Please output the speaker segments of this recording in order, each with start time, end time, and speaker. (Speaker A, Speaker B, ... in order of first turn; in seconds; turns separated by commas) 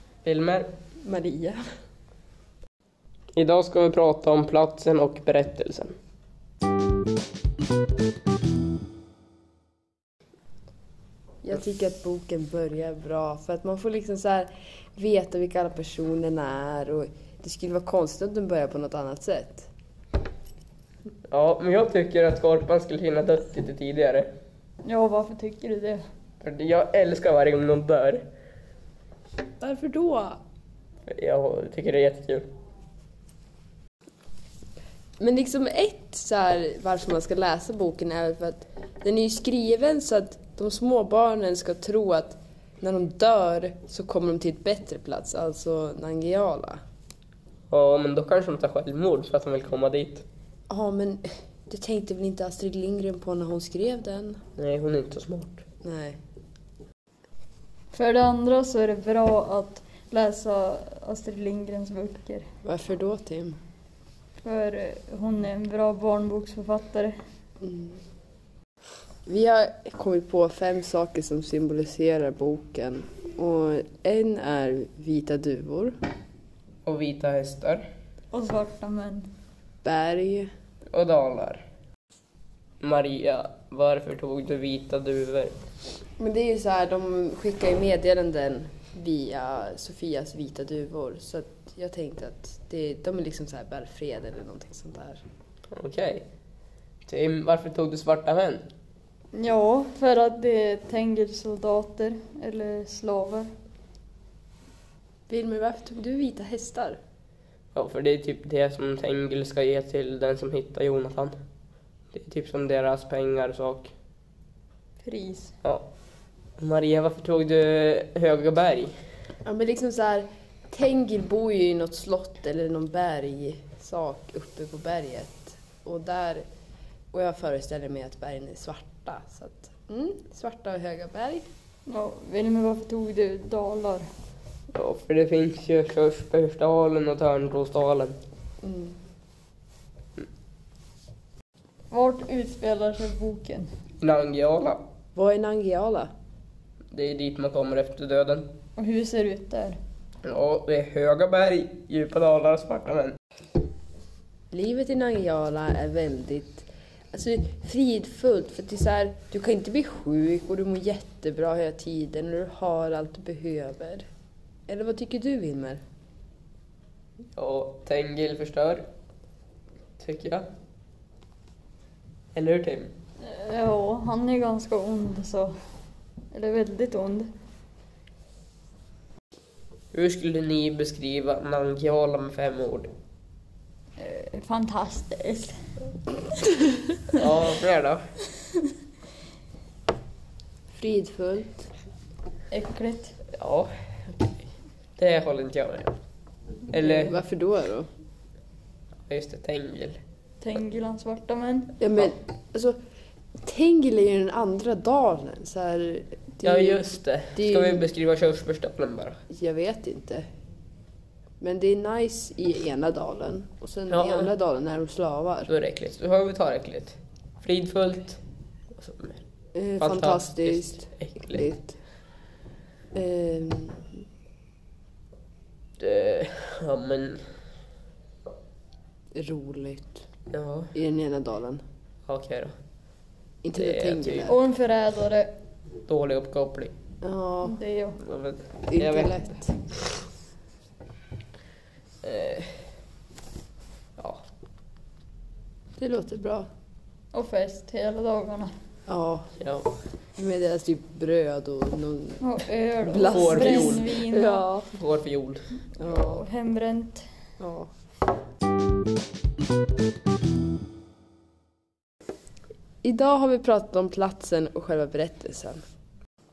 Speaker A: 0.2-0.7, Speaker B: 1.0-1.6, Speaker A: 3.4-6.0, Speaker B: 11.4-19.7, Speaker A: 21.3-24.3, Speaker C: 24.8-26.0, Speaker A: 26.4-28.2, Speaker B: 29.6-30.4, Speaker A: 31.1-32.5, Speaker B: 35.2-46.8, Speaker A: 47.7-50.2, Speaker B: 50.7-54.4, Speaker A: 54.6-55.6, Speaker B: 55.8-56.2, Speaker C: 57.9-62.5, Speaker B: 62.6-63.6, Speaker C: 64.4-67.2, Speaker B: 67.6-68.0, Speaker B: 69.3-76.0, Speaker A: 76.9-77.8, Speaker C: 78.3-79.3, Speaker B: 79.8-80.5, Speaker A: 80.9-81.6, Speaker A: 82.8-85.6, Speaker B: 86.2-95.2, Speaker A: 95.7-96.2, Speaker A: 97.1-98.6, Speaker C: 99.3-103.5, Speaker B: 105.3-107.0, Speaker A: 107.8-111.4, Speaker A: 112.1-113.9, Speaker C: 115.0-115.5, Speaker A: 116.6-118.9, Speaker B: 119.5-126.5, Speaker B: 127.1-131.4, Speaker C: 131.9-134.1, Speaker A: 134.7-138.2, Speaker B: 138.6-139.0, Speaker C: 141.9-143.7, Speaker A: 144.0-144.8, Speaker B: 145.2-146.1, Speaker A: 146.9-148.5, Speaker C: 148.8-149.8, Speaker A: 150.2-153.2, Speaker B: 154.5-164.1, Speaker B: 164.7-165.8, Speaker A: 167.4-168.8, Speaker A: 170.0-170.5, Speaker A: 172.3-172.9, Speaker C: 173.2-175.5, Speaker C: 176.3-177.3, Speaker A: 179.9-182.9, Speaker C: 184.0-185.6, Speaker A: 187.1-188.0, Speaker B: 190.7-191.7, Speaker C: 192.5-193.1, Speaker A: 193.4-194.3, Speaker A: 195.0-196.0, Speaker A: 196.7-197.2, Speaker B: 196.7-197.9, Speaker A: 199.1-200.0, Speaker C: 200.4-201.7, Speaker B: 201.8-202.8, Speaker B: 203.4-206.8, Speaker A: 206.4-209.2, Speaker B: 207.3-207.9, Speaker B: 209.3-210.2, Speaker B: 211.4-215.5, Speaker A: 213.9-214.3, Speaker A: 215.5-218.2, Speaker A: 218.7-219.2, Speaker B: 219.5-221.8, Speaker A: 219.8-221.5, Speaker B: 222.9-223.9, Speaker A: 225.8-227.2, Speaker B: 229.2-230.0, Speaker A: 230.3-230.7, Speaker B: 230.7-231.6, Speaker A: 232.1-232.5, Speaker B: 233.4-234.4, Speaker A: 233.6-234.3, Speaker C: 234.3-235.3, Speaker A: 235.9-236.7, Speaker B: 237.0-237.6, Speaker C: 237.4-238.0, Speaker A: 238.0-239.2, Speaker B: 238.7-239.5, Speaker A: 242.0-242.5, Speaker A: 244.0-244.2, Speaker B: 245.8-246.5, Speaker C: 247.1-248.5, Speaker B: 248.9-249.3, Speaker A: 249.4-249.7, Speaker B: 250.2-252.2, Speaker C: 252.2-254.4, Speaker B: 252.8-254.7, Speaker A: 252.9-254.1, Speaker A: 254.7-255.4, Speaker B: 255.8-256.2, Speaker C: 255.8-257.1, Speaker B: 257.4-257.7, Speaker B: 262.8-265.6